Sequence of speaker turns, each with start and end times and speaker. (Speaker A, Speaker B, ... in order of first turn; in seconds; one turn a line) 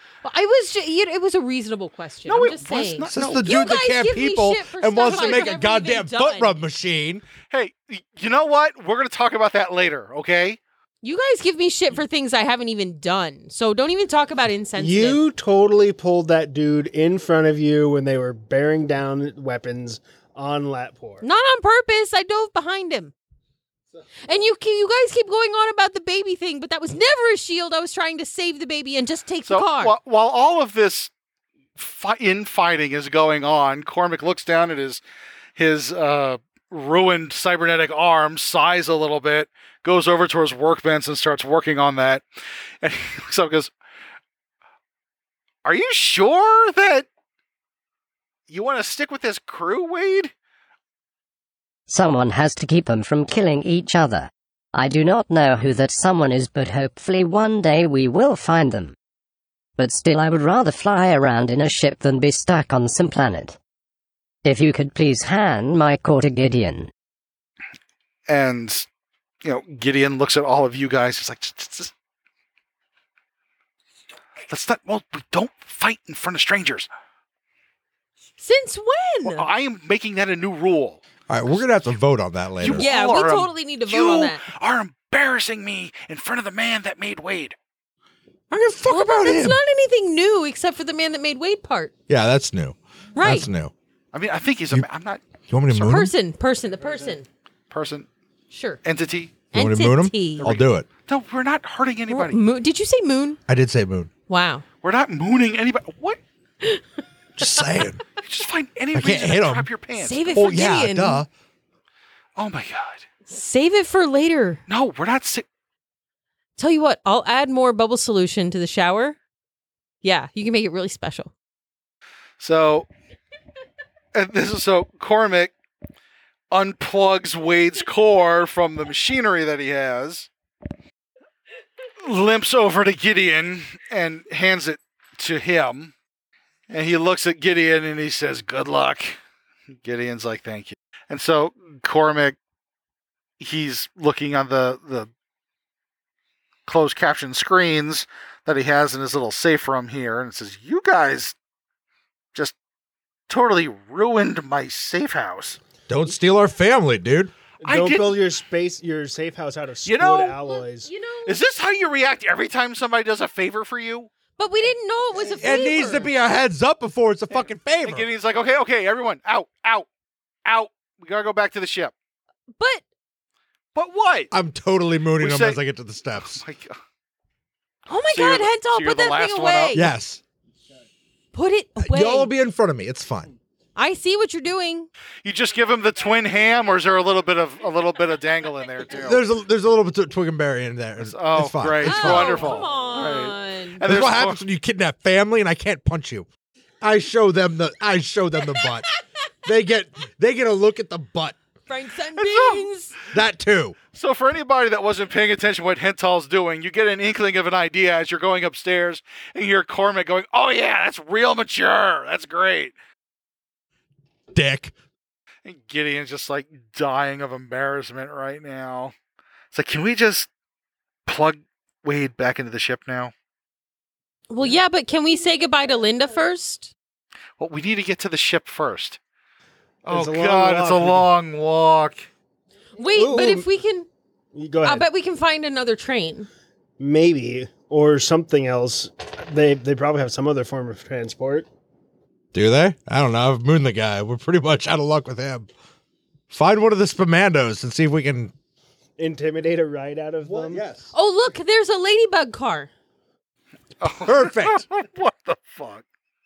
Speaker A: 0.2-6.6
Speaker B: 2.3-3.5
Speaker C: 3.1-7.2
Speaker B: 5.1-5.5
Speaker B: 7.5-10.6
Speaker A: 11.0-15.2
Speaker D: 14.8-21.2
Speaker A: 21.2-23.1
Speaker A: 24.2-29.9
Speaker B: 29.5-31.1
Speaker B: 31.8-35.0
Speaker B: 35.6-42.2
Speaker B: 42.8-43.7
Speaker B: 45.6-47.1
Speaker B: 48.5-50.3
Speaker E: 51.9-59.0
Speaker E: 59.8-63.6
Speaker E: 64.5-66.9
Speaker B: 68.3-68.9
Speaker B: 69.4-71.9
Speaker B: 74.5-76.9
Speaker A: 78.4-79.5
Speaker B: 79.2-81.6
Speaker C: 81.3-82.9
Speaker B: 82.6-87.5
Speaker A: 82.6-84.4
Speaker C: 88.5-89.6
Speaker A: 88.9-91.9
Speaker C: 92.1-93.7
Speaker A: 93.2-93.5
Speaker B: 94.1-95.2
Speaker C: 95.5-96.1
Speaker A: 95.7-97.3
Speaker B: 97.7-98.1
Speaker A: 98.5-98.8
Speaker B: 98.8-99.4
Speaker A: 99.5-100.5
Speaker C: 99.5-100.9
Speaker B: 100.4-102.4
Speaker A: 102.1-103.4
Speaker C: 103.5-104.1
Speaker A: 104.3-104.6
Speaker B: 104.8-106.2
Speaker C: 107.4-108.0
Speaker B: 108.2-110.3
Speaker C: 108.9-109.7
Speaker A: 110.0-111.2
Speaker C: 110.3-111.3
Speaker B: 112.4-113.0
Speaker A: 113.3-114.6
Speaker B: 114.7-115.5
Speaker A: 116.6-119.2
Speaker A: 120.0-121.3
Speaker B: 122.4-122.9
Speaker B: 124.1-125.5
Speaker B: 126.5-130.3
Speaker B: 132.0-135.9
Speaker B: 136.7-139.2
Speaker B: 139.8-142.4
Speaker B: 143.4-145.1
Speaker B: 146.7-151.3
Speaker B: 153.3-155.6
Speaker C: 155.9-157.3
Speaker D: 157.6-160.9
Speaker B: 157.6-158.2
Speaker B: 159.8-160.4
Speaker A: 160.5-161.4
Speaker B: 161.3-164.1
Speaker A: 164.4-166.1
Speaker C: 165.2-168.1
Speaker B: 167.8-169.9
Speaker B: 170.4-171.9
Speaker A: 172.6-172.8
Speaker B: 173.7-174.3
Speaker C: 174.3-176.4
Speaker B: 175.2-175.6
Speaker B: 176.2-176.8
Speaker A: 177.9-179.9
Speaker B: 178.1-179.8
Speaker C: 179.7-180.2
Speaker A: 181.3-182.3
Speaker C: 181.8-183.3
Speaker A: 183.8-184.9
Speaker B: 185.2-189.2
Speaker C: 188.9-192.6
Speaker B: 191.0-194.4
Speaker A: 191.8-193.8
Speaker C: 193.8-196.3
Speaker C: 196.8-198.9
Speaker C: 199.4-201.4
Speaker A: 201.7-203.0
Speaker B: 202.2-202.7
Speaker C: 203.1-203.8
Speaker B: 203.9-212.7
Speaker C: 214.3-214.7
Speaker B: 215.4-218.9
Speaker B: 219.5-220.3
Speaker B: 221.1-223.1
Speaker A: 224.3-226.7
Speaker B: 227.4-229.0
Speaker B: 229.8-232.1
Speaker D: 229.9-231.1
Speaker A: 232.8-233.9
Speaker D: 232.9-233.5
Speaker D: 234.3-234.9
Speaker A: 234.6-236.3
Speaker D: 236.8-241.5
Speaker C: 242.3-245.5
Speaker C: 246.3-248.3
Speaker D: 249.0-250.6
Speaker C: 250.2-250.9
Speaker A: 250.9-252.7
Speaker B: 253.8-255.8
Speaker C: 254.1-254.6